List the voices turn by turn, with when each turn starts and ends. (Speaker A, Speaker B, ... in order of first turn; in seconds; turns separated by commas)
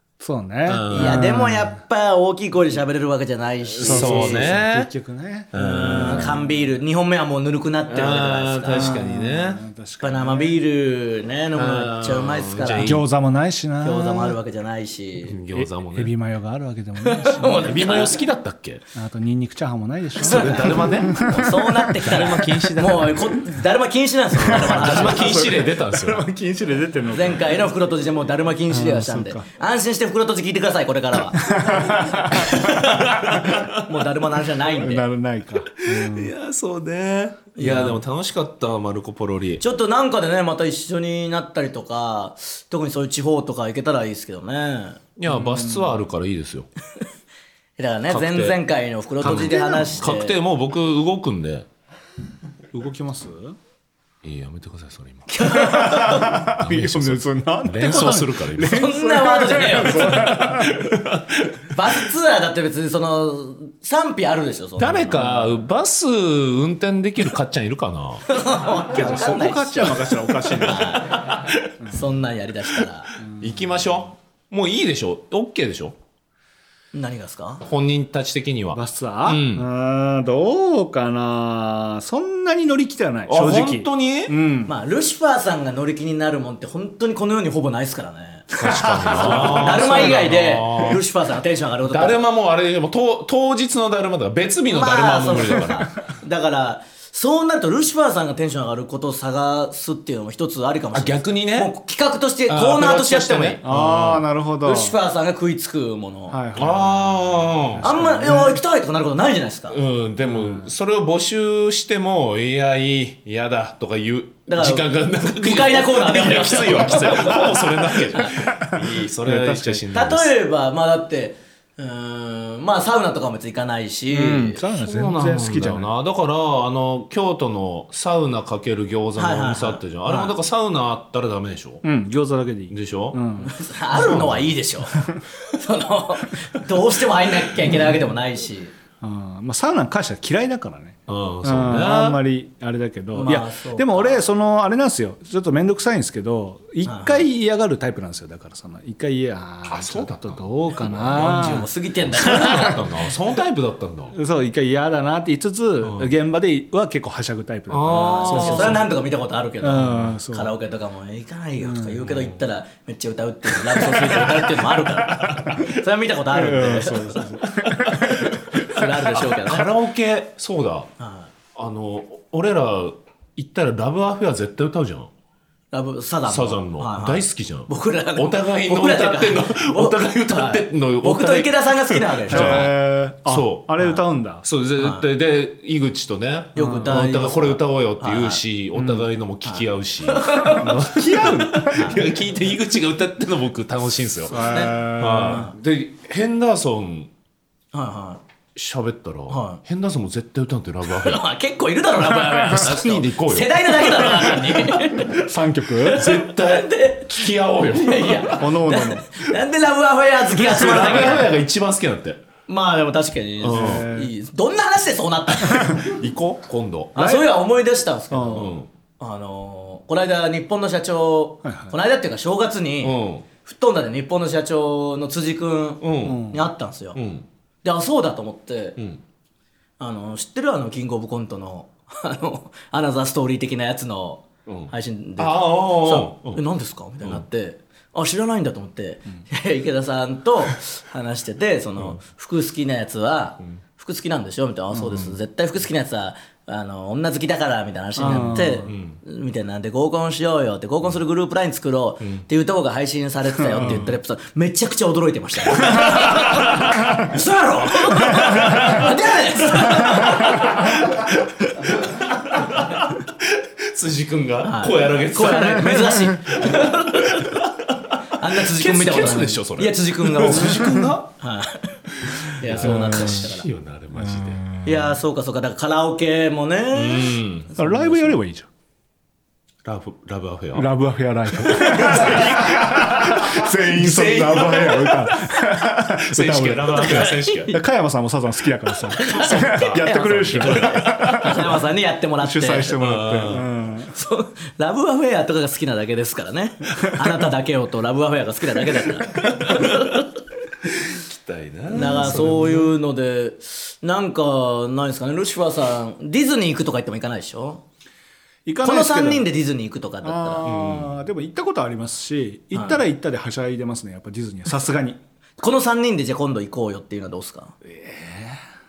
Speaker A: 0.2-1.8, Speaker B: 0.7-1.2, Speaker C: 0.9-4.5, Speaker B: 3.7-4.9, Speaker A: 3.8-6.7, Speaker B: 5.5-6.4, Speaker C: 5.5-9.0, Speaker B: 7.9-9.6, Speaker A: 8.7-10.6, Speaker C: 10.0-13.0, Speaker B: 11.6-13.0, Speaker A: 12.8-14.4, Speaker C: 13.8-15.4, Speaker B: 15.3-16.1, Speaker A: 15.5-17.8, Speaker C: 17.0-18.1, Speaker B: 17.6-18.9, Speaker A: 18.9-22.2, Speaker B: 20.2-23.4, Speaker C: 20.2-25.5, Speaker B: 24.4-26.3, Speaker A: 24.4-27.6, Speaker C: 27.1-35.0, Speaker A: 28.7-29.5, Speaker A: 31.4-32.7, Speaker B: 32.5-33.8, Speaker A: 34.8-36.4, Speaker B: 35.8-39.6, Speaker C: 37.6-38.0, Speaker C: 39.6-45.0, Speaker B: 45.2-46.7, Speaker A: 45.3-46.0, Speaker C: 47.8-50.4, Speaker B: 48.1-48.6, Speaker B: 49.2-51.7, Speaker A: 49.2-50.0, Speaker A: 52.7-53.6, Speaker B: 54.2-55.3, Speaker C: 55.3-56.5, Speaker A: 55.5-61.0, Speaker B: 56.5-58.9, Speaker C: 58.6-60.5, Speaker B: 60.0-61.7, Speaker C: 61.7-65.2, Speaker B: 64.8-68.3, Speaker A: 65.2-65.6, Speaker C: 68.3-70.0, Speaker A: 68.8-71.1, Speaker C: 70.6-73.1, Speaker B: 71.1-71.7, Speaker B: 73.2-76.0, Speaker A: 73.3-73.9, Speaker C: 76.9-77.6, Speaker B: 77.7-79.7, Speaker A: 78.7-84.7, Speaker B: 83.3-84.4, Speaker C: 84.7-88.5, Speaker B: 88.5-91.0, Speaker A: 88.5-89.8, Speaker C: 89.1-92.2, Speaker B: 91.9-96.0, Speaker C: 94.7-103.6, Speaker B: 100.9-101.7, Speaker B: 102.5-104.2, Speaker A: 103.7-105.0, Speaker C: 104.6-106.4, Speaker A: 106.3-108.6, Speaker B: 106.5-107.9, Speaker C: 107.8-109.8, Speaker B: 109.7-120.3, Speaker A: 110.2-110.7, Speaker C: 114.5-118.2, Speaker A: 118.5-119.8, Speaker C: 119.9-124.6, Speaker A: 124.1-125.9, Speaker B: 124.7-131.8, Speaker C: 129.2-130.3, Speaker A: 131.8-133.5, Speaker B: 132.7-133.2, Speaker C: 133.4-138.7, Speaker B: 133.9-134.6, Speaker A: 134.9-135.2, Speaker A: 139.0-152.9, Speaker B: 141.1-142.2, Speaker C: 143.1-144.2, Speaker C: 146.8-147.3, Speaker B: 149.7-154.2, Speaker C: 151.1-152.8, Speaker A: 154.1-158.9, Speaker B: 155.8-156.1, Speaker B: 157.7-158.9, Speaker C: 157.9-169.7, Speaker A: 159.6-160.6, Speaker A: 161.6-162.2, Speaker B: 163.8-165.7, Speaker A: 166.3-168.9, Speaker B: 168.0-170.9, Speaker C: 171.0-171.3, Speaker B: 171.6-175.1, Speaker C: 175.7-182.7, Speaker B: 176.3-181.6, Speaker B: 182.2-182.7, Speaker A: 182.3-184.4, Speaker B: 183.3-183.8, Speaker B: 184.4-197.1, Speaker C: 184.8-185.1, Speaker C: 186.6-188.4, Speaker A: 186.6-187.0, Speaker A: 188.8-189.1, Speaker C: 189.4-190.7, Speaker A: 190.5-192.0, Speaker C: 191.7-192.0, Speaker A: 194.3-195.5, Speaker C: 194.3-195.6, Speaker C: 197.7-198.2, Speaker B: 198.6-201.2, Speaker C: 199.3-199.6, Speaker C: 200.9-205.2, Speaker B: 202.4-204.9, Speaker A: 205.0-206.0, Speaker C: 205.8-207.2, Speaker B: 205.9-208.8, Speaker C: 207.8-211.3, Speaker A: 208.4-209.1, Speaker B: 210.3-212.2, Speaker C: 212.5-215.9, Speaker B: 213.4-213.9, Speaker A: 213.5-214.1, Speaker B: 215.5-216.9, Speaker C: 216.9-227.0, Speaker A: 217.0-217.3, Speaker A: 218.1-218.5, Speaker B: 218.3-218.7, Speaker A: 221.4-221.7, Speaker B: 222.8-223.3, Speaker B: 225.8-226.2, Speaker A: 226.0-226.5, Speaker B: 226.9-227.3, Speaker C: 227.6-228.8, Speaker B: 228.8-229.0, Speaker C: 229.8-260.5, Speaker B: 234.5-236.4, Speaker A: 244.7-245.2, Speaker A: 248.0-248.7, Speaker B: 248.6-249.0, Speaker A: 253.5-254.0, Speaker B: 255.6-257.0, Speaker B: 257.8-258.9, Speaker A: 258.1-258.8, Speaker B: 259.5-271.1, Speaker A: 260.0-260.4, Speaker C: 264.4-267.4, Speaker C: 268.1-273.5, Speaker A: 270.2-270.9, Speaker B: 271.9-274.4, Speaker A: 272.6-273.3, Speaker A: 273.9-275.0, Speaker C: 274.6-278.1, Speaker B: 276.7-277.5, Speaker A: 277.6-278.5, Speaker B: 279.6-280.7, Speaker A: 280.6-291.5, Speaker B: 281.3-287.6, Speaker C: 286.8-287.6, Speaker C: 288.9-292.8, Speaker B: 289.0-291.6, Speaker A: 292.2-294.0, Speaker B: 292.8-293.5, Speaker C: 293.8-300.1, Speaker B: 299.3-300.0, Speaker B: 300.6-302.6, Speaker C: 301.7-307.6, Speaker A: 301.8-302.6, Speaker A: 308.5-309.3, Speaker C: 308.6-310.5, Speaker A: 310.0-315.0, Speaker B: 310.4-311.0, Speaker C: 312.5-312.8, Speaker C: 315.4-317.6, Speaker A: 317.7-318.4